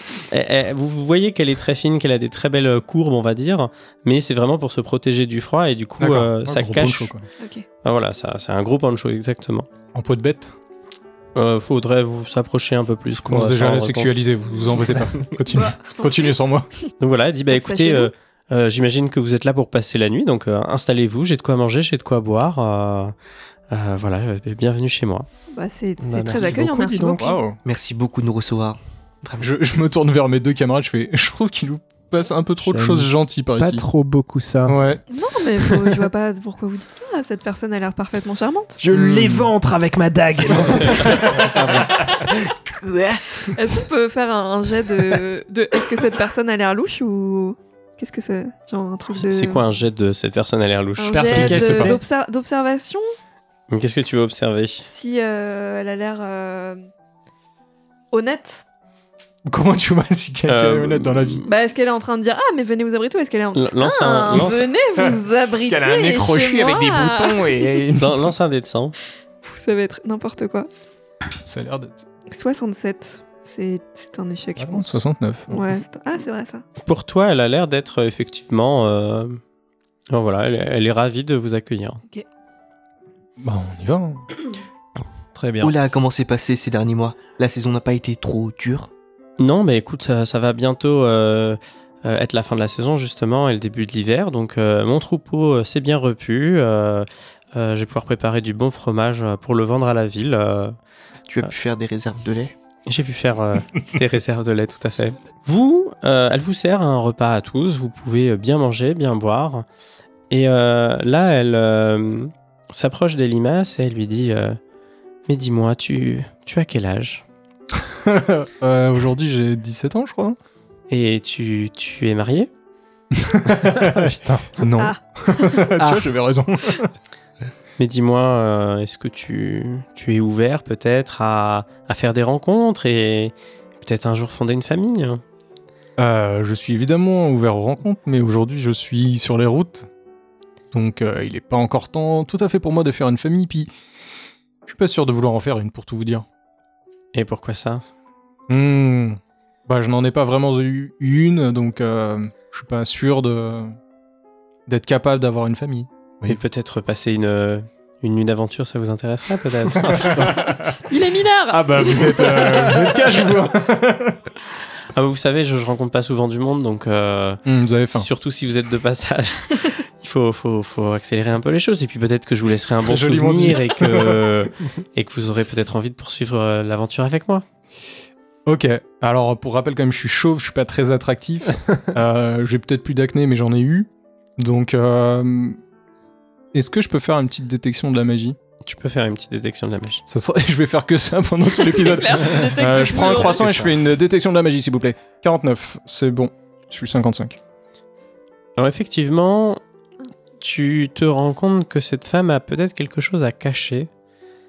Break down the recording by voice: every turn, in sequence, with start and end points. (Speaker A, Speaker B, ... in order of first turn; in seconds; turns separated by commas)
Speaker A: 0.3-7.1, Speaker B: 6.0-7.2, Speaker C: 7.4-7.7, Speaker A: 7.8-9.7, Speaker B: 9.9-10.6, Speaker A: 11.3-14.2, Speaker B: 13.2-16.7, Speaker C: 15.5-16.3, Speaker A: 17.0-23.1, Speaker C: 17.5-18.1, Speaker A: 23.7-25.3, Speaker C: 25.5-27.4, Speaker D: 26.0-27.3, Speaker B: 27.2-27.6, Speaker E: 27.6-29.5, Speaker B: 29.4-33.9, Speaker D: 32.6-34.8, Speaker B: 34.7-35.0, Speaker C: 35.1-38.8, Speaker D: 38.8-42.2, Speaker B: 38.9-39.5, Speaker E: 42.3-43.6, Speaker C: 43.5-49.6, Speaker A: 49.1-52.0, Speaker C: 51.0-53.0, Speaker B: 51.1-52.0, Speaker A: 53.7-54.9, Speaker C: 54.8-56.8, Speaker C: 58.1-58.6, Speaker B: 59.5-61.4, Speaker A: 60.5-61.5, Speaker C: 61.5-67.9, Speaker A: 63.5-64.7, Speaker B: 65.0-68.3, Speaker A: 68.0-69.0, Speaker C: 69.4-70.7, Speaker B: 71.5-72.1, Speaker C: 72.3-76.6, Speaker B: 74.6-75.5, Speaker A: 76.8-79.4, Speaker A: 80.1-82.0, Speaker B: 83.4-84.3, Speaker D: 85.4-85.7, Speaker E: 85.6-88.9, Speaker A: 89.4-100.8, Speaker E: 101.3-102.5, Speaker A: 102.9-109.7, Speaker A: 110.3-114.6, Speaker A: 115.3-117.2, Speaker B: 117.8-120.4, Speaker A: 120.9-122.5, Speaker B: 123.1-126.9, Speaker D: 123.7-124.5, Speaker C: 124.8-125.6, Speaker D: 125.8-126.1, Speaker A: 127.8-135.2, Speaker B: 136.0-139.9, Speaker B: 140.7-143.7, Speaker B: 144.7-146.3, Speaker A: 147.1-147.8, Speaker B: 148.5-153.8, Speaker B: 154.7-156.4, Speaker A: 156.3-160.4, Speaker B: 159.8-160.8, Speaker C: 160.9-163.2, Speaker B: 161.5-164.2, Speaker A: 164.9-177.4, Speaker B: 167.5-168.1, Speaker B: 172.7-174.2, Speaker B: 178.5-185.6, Speaker B: 186.5-188.4, Speaker A: 188.6-190.0, Speaker B: 190.1-197.4, Speaker C: 191.5-193.6, Speaker A: 193.1-193.4, Speaker A: 198.6-199.6, Speaker A: 200.4-203.9